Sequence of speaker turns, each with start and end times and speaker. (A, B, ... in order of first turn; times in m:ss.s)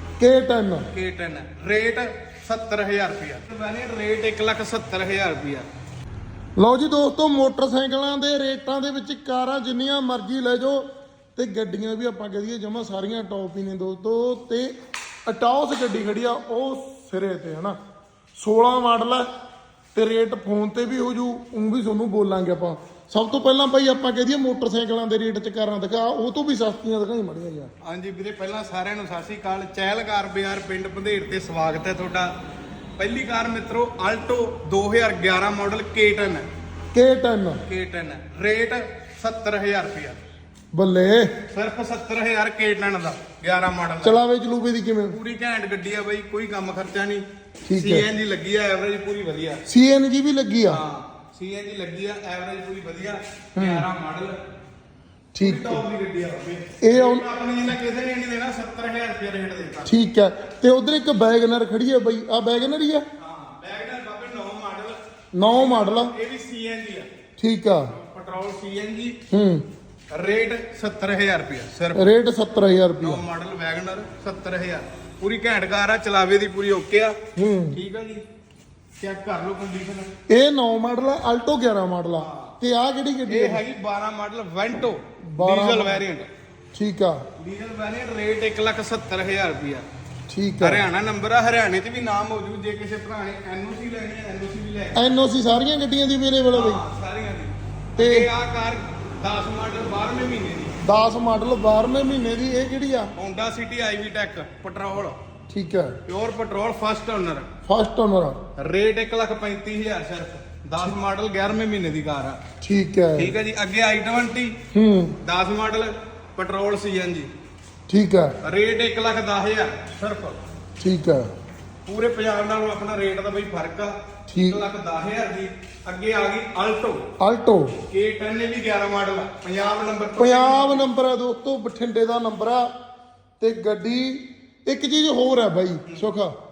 0:00.2-0:00.9 A
0:00.9-0:05.7 B
0:06.6-0:10.8 A
0:11.4-0:17.8 A
0:18.4-0:19.3 A
0:19.9-0:27.7 A
0:27.8-0:32.3 B
0:33.0-0:36.5 B
0:36.9-0:37.6 A
0:37.6-0:40.2 B
0:40.7-0:41.3 A
0:41.5-0:44.2 B
0:44.0-0:45.2 A
0:45.1-0:49.6 B
0:47.7-0:48.1 A
0:49.7-0:50.8 A
0:50.7-0:54.4 B
0:53.6-0:53.9 A
0:55.3-0:55.8 A
0:55.4-0:59.9 B
0:56.8-0:57.2 A
0:59.8-1:03.0 A
1:03.2-1:07.1 B
1:05.3-1:06.1 A
1:07.4-1:07.9 A
1:07.9-1:09.2 B
1:09.3-1:09.6 A
1:10.1-1:12.1 B
1:11.9-1:13.2 A
1:13.0-1:17.2 B
1:17.4-1:17.8 A
1:17.7-1:18.2 B
1:19.0-1:20.1 B
1:20.3-1:23.6 A
1:22.2-1:22.6 B
1:23.3-1:26.3 B
1:25.3-1:26.0 A
1:26.7-1:27.2 A
1:27.4-1:29.8 B
1:30.3-1:30.8 A
1:30.6-1:35.0 B
1:35.0-1:36.8 A
1:36.5-1:40.8 B
1:38.0-1:38.3 A
1:40.8-1:43.1 A
1:43.2-1:45.2 B
1:45.5-1:46.0 A
1:46.1-1:47.5 B
1:47.6-1:48.4 A
1:48.6-1:52.4 B
1:52.6-1:53.3 A
1:53.2-1:54.6 B
1:54.7-1:55.2 A
1:55.2-1:57.3 B
1:57.9-1:58.3 A
1:58.4-2:00.4 B
2:00.8-2:01.3 A
2:01.8-2:07.0 B
2:04.3-2:04.6 A
2:07.2-2:07.8 A
2:07.9-2:10.8 B
2:10.2-2:12.7 A
2:13.4-2:16.3 A